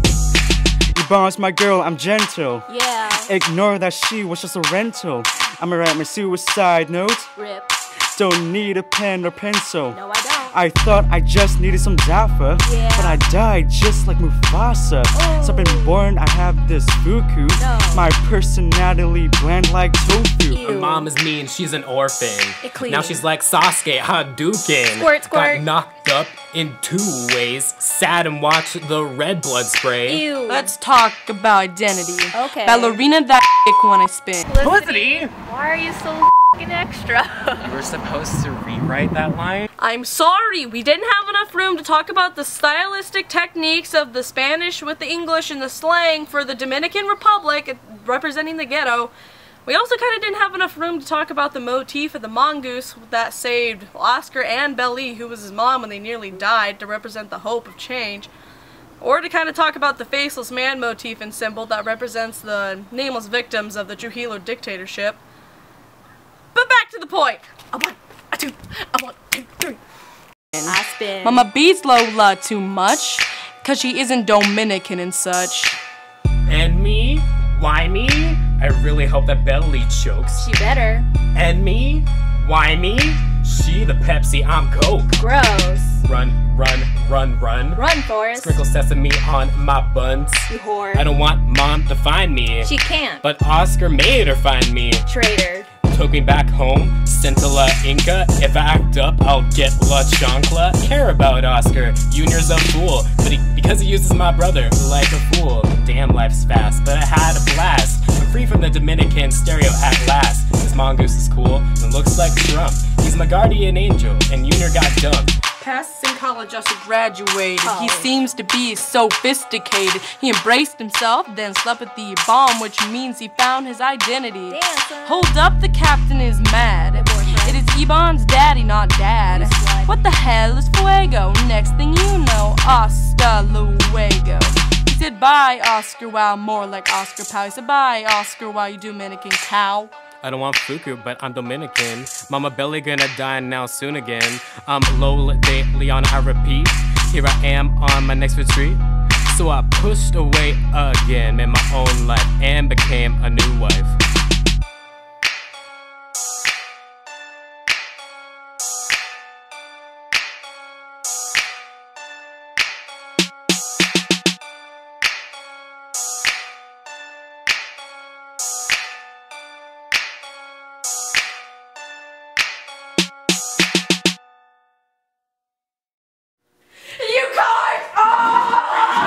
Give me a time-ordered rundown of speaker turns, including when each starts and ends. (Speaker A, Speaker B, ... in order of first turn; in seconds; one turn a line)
Speaker A: 0.9-2.7
Speaker B: 2.7-3.4
Speaker A: 3.2-7.3
Speaker B: 7.3-7.8
Speaker A: 8.1-20.7
Speaker B: 9.9-10.5
Speaker B: 12.6-13.2
Speaker B: 15.1-16.0
Speaker B: 17.5-18.1
Speaker B: 20.5-21.1
Speaker C: 20.6-30.2
Speaker B: 22.6-23.2
Speaker B: 24.9-25.6
Speaker B: 30.1-30.7
Speaker D: 30.5-34.5
Speaker B: 32.3-33.0
Speaker B: 34.5-37.7
Speaker C: 34.6-35.3
Speaker C: 37.6-39.7
Speaker D: 39.8-49.1
Speaker D: 49.6-58.3
Speaker D: 59.0-65.2
Speaker D: 66.5-69.8
Speaker D: 70.5-75.8
Speaker B: 70.7-71.5
Speaker C: 76.5-80.5
Speaker B: 80.3-81.1
Speaker C: 81.3-85.2
Speaker B: 85.2-86.0
Speaker C: 86.0-95.1
Speaker B: 87.8-88.6
Speaker B: 90.5-91.0
Speaker B: 92.6-93.2
Speaker B: 95.0-95.7
Speaker C: 95.8-115.3
Speaker D: 115.6-139.9
Speaker B: 117.6-118.1
Speaker B: 124.5-125.3
Speaker B: 126.9-127.6
Speaker B: 129.3-129.9
Speaker C: 140.2-154.0
Speaker B: 177.0-178.3